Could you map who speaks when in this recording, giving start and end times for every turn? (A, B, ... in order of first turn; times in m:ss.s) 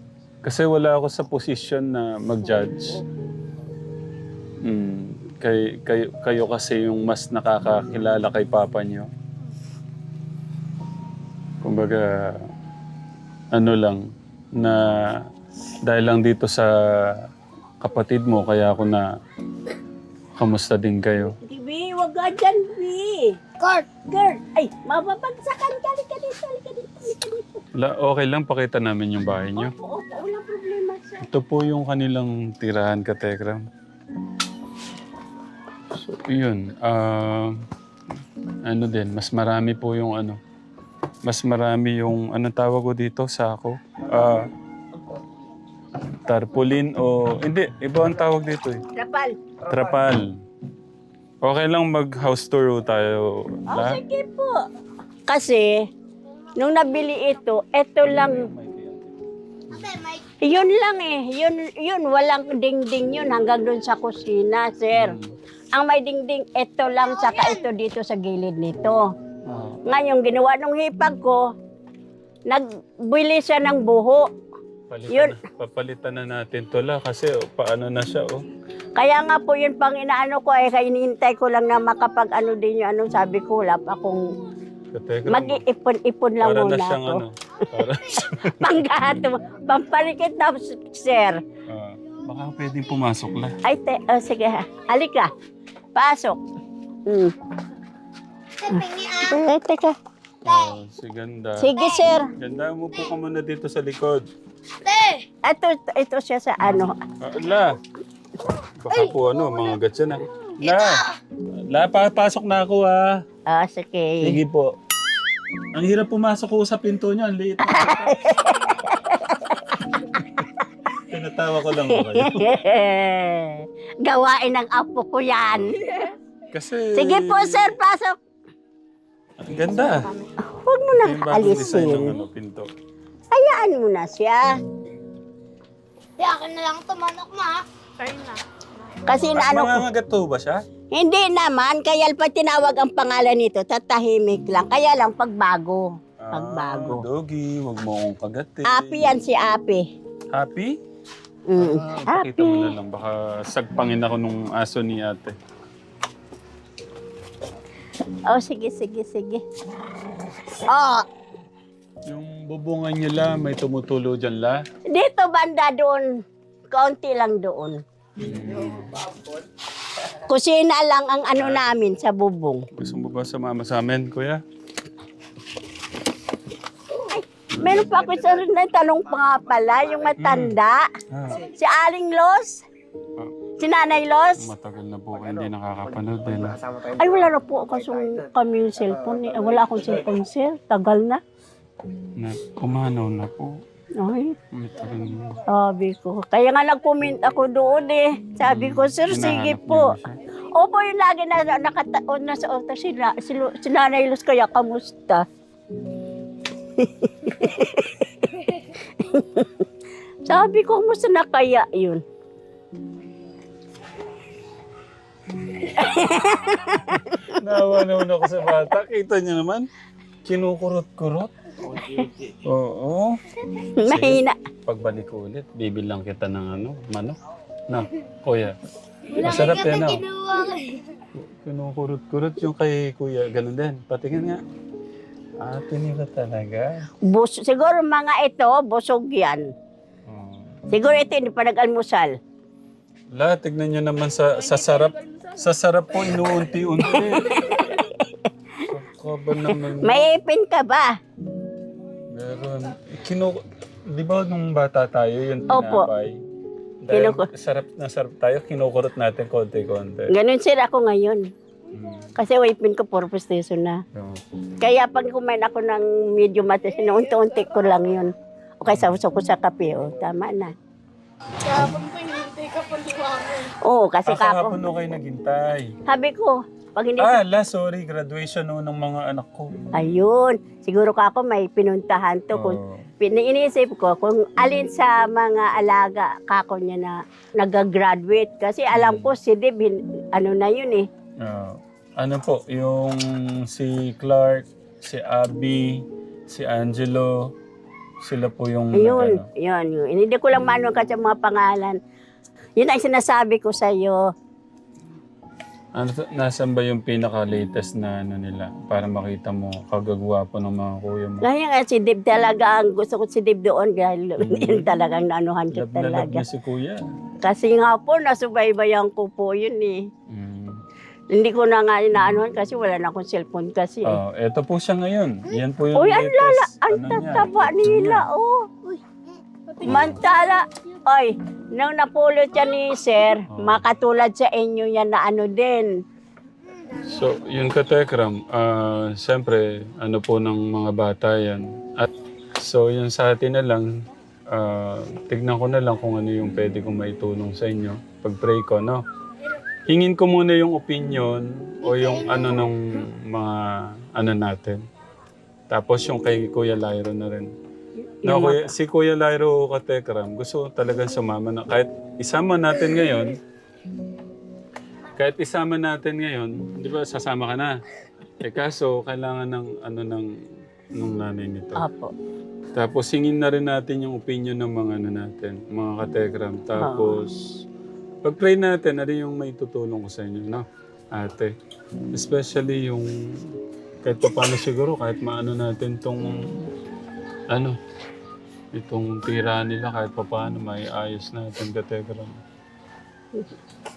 0:00.4-0:03.0 A
0:04.6-0:09.1 A
0:11.6-0:12.5 A
0:13.5-0:14.0 A
0:14.6-0:14.8 A
0:15.8-0:17.2 A
0:17.8-0:19.0 A
0:20.4-0:21.4 A
0:21.4-0:23.4 B
0:23.6-0:23.9 C
0:24.1-0:27.6 B
0:27.7-0:29.7 A
0:29.6-0:31.2 B
0:31.2-0:33.7 A
0:35.9-0:37.6 A
0:38.6-0:40.4 A
0:41.2-0:44.5 A
0:46.2-0:48.8 A
0:48.9-0:49.4 B
0:49.6-0:50.4 A
0:51.4-0:54.0 A
0:53.7-0:54.6 B
0:55.3-0:55.8 B
0:56.6-0:58.5 B
0:58.0-0:59.2 A
0:59.7-1:00.2 C
1:00.4-1:05.2 B
1:04.9-1:05.3 A
1:05.7-1:09.0 B
1:07.2-1:07.6 C
1:09.4-1:09.8 A
1:09.8-1:11.4 B
1:12.5-1:14.3 B
1:14.9-1:18.4 A
1:19.0-1:24.2 B
1:24.9-1:25.6 A
1:25.3-1:27.2 B
1:26.4-1:29.0 A
1:28.4-1:31.4 B
1:31.7-1:33.6 A
1:33.6-1:35.3 B
1:35.9-1:36.4 B
1:37.1-1:37.3 B
1:38.6-1:39.4 C
1:38.7-1:40.0 B
1:40.4-1:41.7 A
1:40.5-1:40.7 C
1:41.6-1:42.3 B
1:41.8-1:42.0 C
1:42.4-1:44.3 A
1:44.8-1:45.2 C
1:45.4-1:46.9 B
1:47.2-1:47.8 A
1:48.8-1:51.0 A
1:50.6-1:51.2 C
1:51.7-1:53.2 A
1:53.5-1:54.4 B
1:54.2-1:54.8 A
1:55.7-1:58.6 A
1:57.7-1:59.6 B
2:00.0-2:02.5 A
2:01.9-2:06.1 B
2:05.5-2:05.8 A
2:06.5-2:07.8 A
2:06.9-2:08.2 B
2:09.4-2:10.1 A
2:09.9-2:10.2 D
2:10.4-2:12.2 B
2:10.9-2:12.7 A
2:13.3-2:14.6 B
2:16.2-2:17.6 C
2:18.0-2:18.4 D
2:19.0-2:19.8 B
2:19.1-2:20.6 A
2:20.9-2:27.0 B
2:26.2-2:29.1 A
2:28.6-2:29.8 B
2:30.3-2:30.8 A
2:31.5-2:32.7 B
2:31.6-2:35.4 A
2:38.3-2:39.4 B
2:40.7-2:41.0 B
2:42.1-2:44.6 A
2:44.9-2:46.1 B
2:46.7-2:47.8 B
2:48.2-2:49.0 A
2:50.2-2:52.6 B
2:51.4-2:51.6 A
2:52.7-2:54.4 A
2:57.0-3:00.9 B
2:57.5-2:57.8 A
3:00.2-3:00.6 A
3:01.1-3:01.4 A
3:01.4-3:02.6 B
3:03.6-3:04.5 B
3:04.4-3:06.6 A
3:06.9-3:11.2 B
3:12.2-3:13.6 A
3:14.0-3:14.3 B
3:14.5-3:15.4 A
3:15.5-3:19.9 B
3:18.4-3:20.2 A
3:20.5-3:25.2 B
3:26.8-3:29.6 B
3:30.3-3:32.0 B
3:35.6-3:37.4 B
3:37.1-3:39.7 A
3:40.2-3:43.2 A
3:43.6-3:44.3 B
3:43.8-3:47.2 A
3:47.7-3:48.6 A
3:49.1-3:50.8 C
3:49.1-3:50.0 A
3:51.1-3:54.4 A
3:55.4-3:56.8 A
3:57.0-3:59.4 B
4:00.1-4:00.5 A
4:00.7-4:02.2 B
4:03.1-4:07.6 A
4:06.8-4:08.3 B
4:08.6-4:10.0 A
4:09.8-4:11.0 B
4:12.1-4:16.2 A
4:15.5-4:15.9 B
4:16.8-4:20.1 A
4:16.9-4:17.3 B
4:20.1-4:21.2 B
4:21.7-4:22.1 A
4:22.2-4:23.8 B
4:23.9-4:24.2 A
4:24.6-4:30.5 B
4:28.6-4:29.0 A
4:31.4-4:33.5 D
4:33.6-4:34.6 B
4:34.1-4:35.7 A
4:35.8-4:37.2 B
4:37.0-4:39.5 A
4:39.7-4:50.8 B
4:42.3-4:42.9 A
4:48.7-4:49.1 A
4:51.2-4:57.3 A
4:58.0-4:59.3 A
4:58.7-5:01.8 B
5:02.6-5:04.0 B
5:05.7-5:11.3 A
5:11.2-5:16.2 B
5:14.2-5:14.7 A
5:15.5-5:16.8 A
5:17.2-5:19.8 B
5:20.1-5:20.6 A
5:21.1-5:24.0 B
5:23.8-5:28.1 A
5:25.7-5:28.5 B
5:29.6-5:35.8 B
5:29.6-5:30.0 A
5:33.3-5:33.7 A
5:36.8-5:43.7 A
5:44.3-5:48.8 A
5:49.7-5:54.6 A
5:55.5-5:57.3 A
5:57.8-5:58.5 B
5:58.0-6:03.2 A
6:05.0-6:07.6 A
6:08.2-6:10.1 A
6:10.7-6:11.6 A
6:11.6-6:11.9 B
6:12.5-6:17.3 A
6:16.6-6:17.0 B
6:18.0-6:21.3 A
6:21.9-6:26.5 A
6:27.3-6:27.6 A
6:28.5-6:32.2 A